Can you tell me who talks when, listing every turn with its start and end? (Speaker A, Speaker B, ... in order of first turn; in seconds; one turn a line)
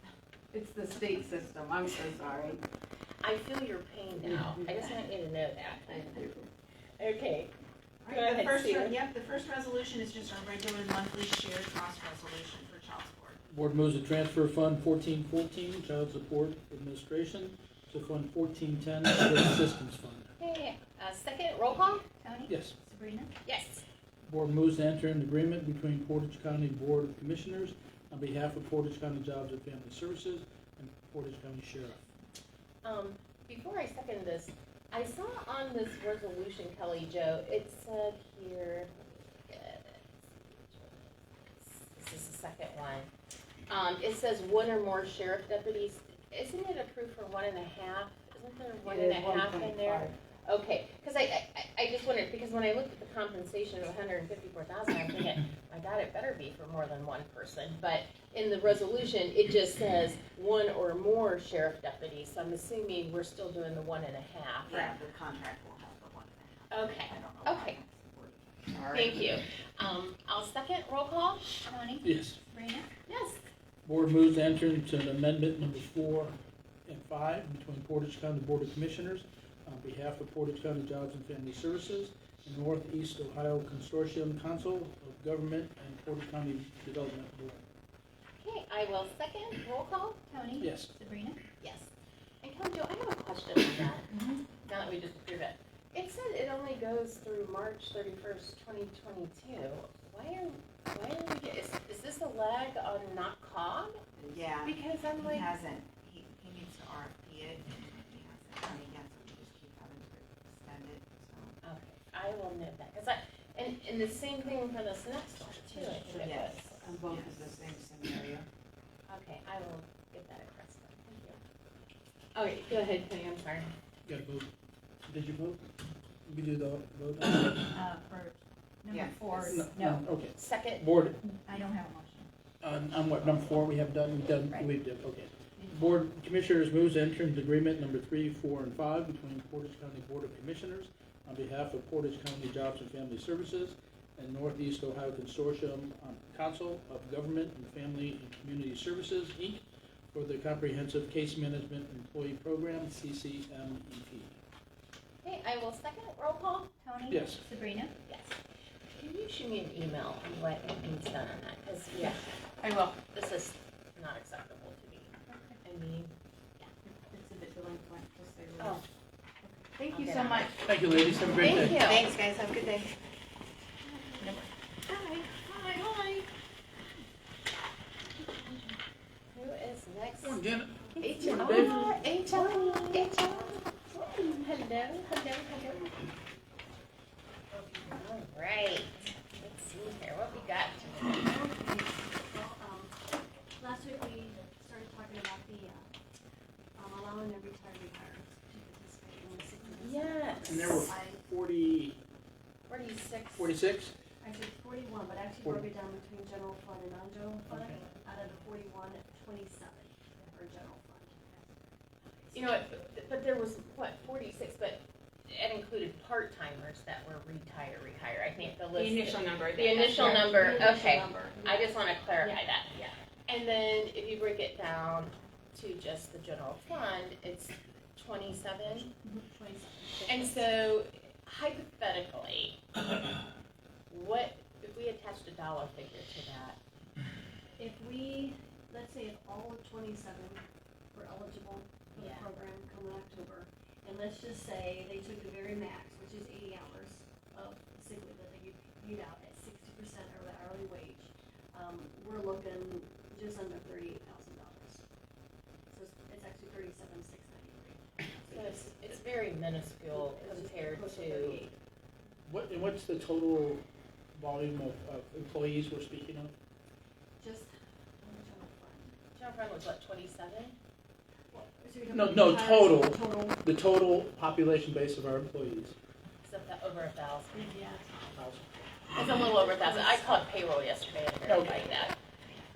Speaker A: 0.5-2.6
Speaker B: 3.2-6.1
Speaker C: 5.9-6.5
Speaker B: 7.0-7.5
Speaker C: 8.0-13.4
Speaker B: 8.1-9.0
Speaker D: 13.5-20.3
Speaker B: 20.4-22.0
Speaker E: 22.2-23.3
Speaker D: 22.5-22.7
Speaker B: 23.4-23.8
Speaker D: 24.2-32.0
Speaker B: 32.8-43.1
Speaker B: 43.7-64.9
Speaker A: 48.9-50.1
Speaker C: 64.6-69.4
Speaker B: 66.7-67.8
Speaker B: 68.9-71.4
Speaker E: 71.7-72.9
Speaker D: 72.0-72.4
Speaker B: 73.1-73.4
Speaker D: 73.8-87.6
Speaker B: 88.4-90.2
Speaker E: 90.3-91.4
Speaker D: 90.6-90.9
Speaker B: 91.6-91.9
Speaker B: 92.4-104.0
Speaker E: 94.1-94.4
Speaker C: 104.2-111.6
Speaker A: 104.7-105.4
Speaker B: 111.6-116.9
Speaker A: 115.8-117.6
Speaker C: 116.2-118.5
Speaker B: 119.1-121.4
Speaker B: 122.3-123.7
Speaker D: 124.0-124.5
Speaker D: 125.1-125.6
Speaker D: 126.2-127.8
Speaker E: 127.7-130.0
Speaker C: 128.9-129.5
Speaker D: 129.5-131.2
Speaker B: 130.3-130.8
Speaker E: 131.4-132.3
Speaker D: 132.6-154.4
Speaker B: 155.2-156.7
Speaker E: 156.8-157.9
Speaker D: 157.1-157.4
Speaker B: 158.1-158.3
Speaker B: 158.9-162.2
Speaker A: 162.0-163.0
Speaker B: 163.0-166.1
Speaker A: 166.8-168.8
Speaker B: 168.6-168.8
Speaker A: 169.4-170.5
Speaker B: 169.9-170.5
Speaker D: 170.6-171.8
Speaker B: 171.4-172.1
Speaker C: 171.8-172.9
Speaker E: 174.2-174.4
Speaker B: 179.3-180.4
Speaker D: 180.2-182.0
Speaker B: 181.0-186.1
Speaker B: 187.8-191.2
Speaker F: 190.9-192.9
Speaker F: 193.6-195.9
Speaker F: 196.7-201.2
Speaker B: 199.8-200.7
Speaker D: 200.4-202.0
Speaker B: 202.7-203.5
Speaker D: 203.3-203.9
Speaker F: 204.2-212.4
Speaker D: 205.4-205.7
Speaker D: 207.5-207.8
Speaker B: 212.3-222.7
Speaker A: 218.8-220.5
Speaker F: 219.8-222.4
Speaker B: 223.3-228.9
Speaker F: 229.0-230.3
Speaker B: 230.1-232.6
Speaker B: 233.9-236.6
Speaker F: 237.6-240.4
Speaker F: 240.9-254.8
Speaker B: 241.9-242.3
Speaker F: 255.7-258.6
Speaker B: 258.3-261.5
Speaker F: 259.9-261.6
Speaker D: 262.2-263.6
Speaker D: 264.1-266.3
Speaker F: 267.2-268.9
Speaker B: 269.1-270.6
Speaker F: 271.3-273.4
Speaker D: 271.9-275.8
Speaker B: 276.2-277.6
Speaker F: 277.3-278.0
Speaker D: 278.1-278.7
Speaker B: 278.9-281.9
Speaker F: 279.4-280.1
Speaker D: 281.2-281.7